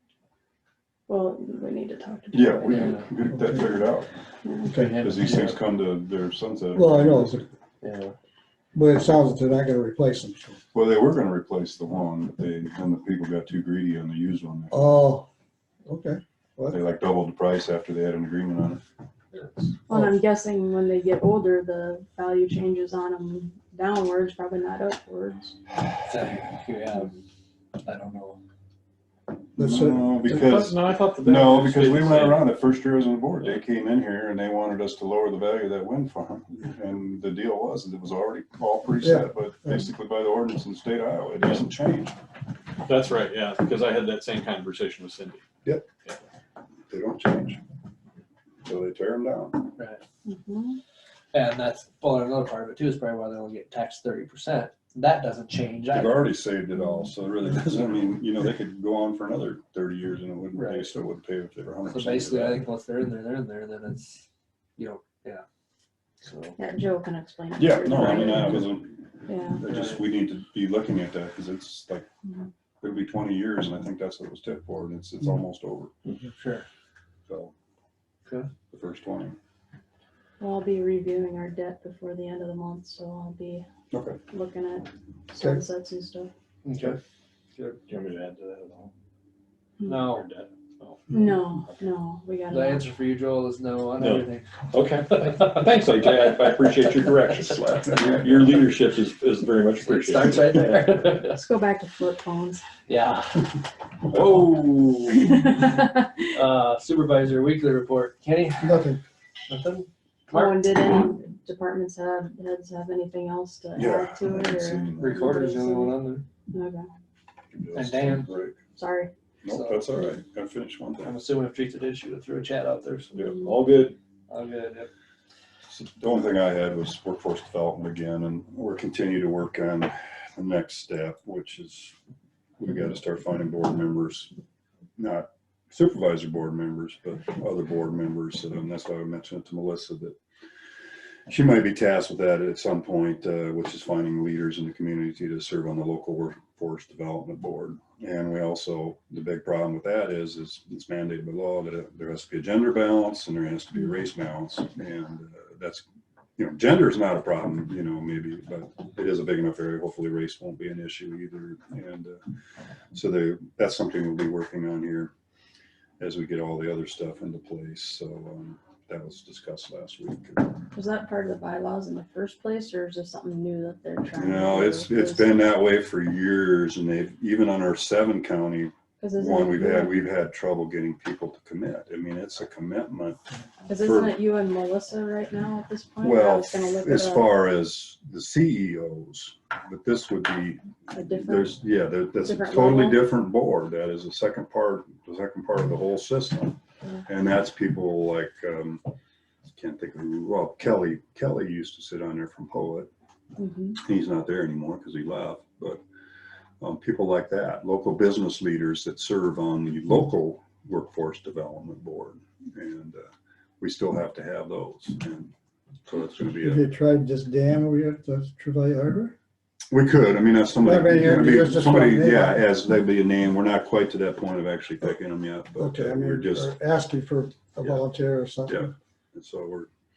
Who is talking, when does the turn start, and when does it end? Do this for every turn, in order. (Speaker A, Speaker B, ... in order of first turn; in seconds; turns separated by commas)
Speaker A: 1.1-2.9, Speaker B: 2.3-4.1, Speaker C: 2.7-3.1, Speaker D: 3.3-3.6, Speaker A: 4.4-4.8, Speaker D: 4.7-5.0, Speaker C: 4.7-5.6, Speaker B: 4.9-7.5, Speaker D: 6.7-7.5, Speaker C: 7.8-8.2, Speaker D: 8.7-10.6, Speaker B: 10.7-15.0, Speaker D: 14.7-15.3, Speaker D: 15.8-16.8, Speaker B: 16.7-18.8, Speaker A: 19.9-25.6, Speaker C: 26.1-27.2, Speaker C: 27.8-28.4, Speaker B: 29.6-42.1, Speaker D: 29.6-30.0, Speaker E: 30.2-32.5, Speaker D: 39.0-39.9, Speaker E: 42.8-45.4, Speaker B: 46.9-47.6, Speaker B: 48.6-49.7, Speaker C: 49.8-50.0, Speaker A: 50.2-50.8, Speaker C: 51.3-56.2, Speaker B: 55.9-62.6, Speaker C: 60.5-60.9, Speaker C: 61.9-64.2, Speaker C: 64.8-65.4, Speaker C: 66.2-66.5, Speaker A: 66.6-68.7, Speaker B: 67.6-72.0, Speaker A: 69.3-69.6, Speaker C: 69.7-70.0, Speaker B: 72.8-75.9, Speaker C: 76.3-76.7, Speaker B: 77.3-77.5, Speaker B: 78.7-79.3, Speaker A: 80.4-83.7, Speaker B: 83.9-84.2, Speaker A: 84.3-86.3, Speaker C: 86.6-87.0, Speaker E: 87.9-88.9, Speaker A: 89.8-90.0, Speaker C: 89.9-90.3, Speaker E: 90.0-91.2, Speaker A: 91.1-92.9, Speaker C: 92.5-94.5, Speaker E: 94.0-100.7, Speaker C: 99.8-101.4, Speaker A: 101.2-102.6, Speaker C: 102.9-103.5, Speaker E: 104.1-105.2, Speaker C: 104.1-104.6, Speaker A: 105.2-106.1, Speaker C: 106.3-108.9, Speaker D: 108.6-109.0, Speaker C: 109.5-110.6, Speaker A: 110.3-116.0, Speaker B: 113.8-115.2, Speaker C: 115.0-116.2, Speaker A: 116.5-116.9, Speaker E: 117.5-118.2, Speaker C: 117.7-118.3, Speaker B: 118.0-118.5, Speaker A: 118.7-119.1, Speaker B: 119.4-121.2, Speaker C: 119.5-120.0, Speaker C: 121.0-123.2, Speaker E: 123.1-124.0, Speaker C: 124.3-124.9, Speaker B: 125.7-131.9, Speaker B: 132.6-134.3, Speaker B: 135.0-140.2, Speaker B: 141.3-155.8, Speaker B: 156.4-162.2, Speaker B: 162.9-165.1, Speaker B: 166.0-170.5, Speaker A: 170.7-175.3, Speaker B: 174.2-183.2, Speaker A: 179.0-179.9, Speaker A: 183.7-187.3, Speaker B: 183.8-184.2, Speaker B: 186.0-190.6, Speaker A: 190.9-191.6, Speaker B: 191.2-198.8, Speaker A: 192.2-193.1, Speaker B: 199.6-202.9, Speaker A: 203.4-203.8, Speaker B: 203.8-205.8, Speaker B: 206.6-213.1, Speaker B: 213.6-215.3, Speaker B: 215.8-216.7, Speaker D: 216.4-219.1, Speaker B: 219.7-226.5, Speaker D: 220.6-222.4, Speaker D: 225.6-228.7, Speaker B: 228.5-229.7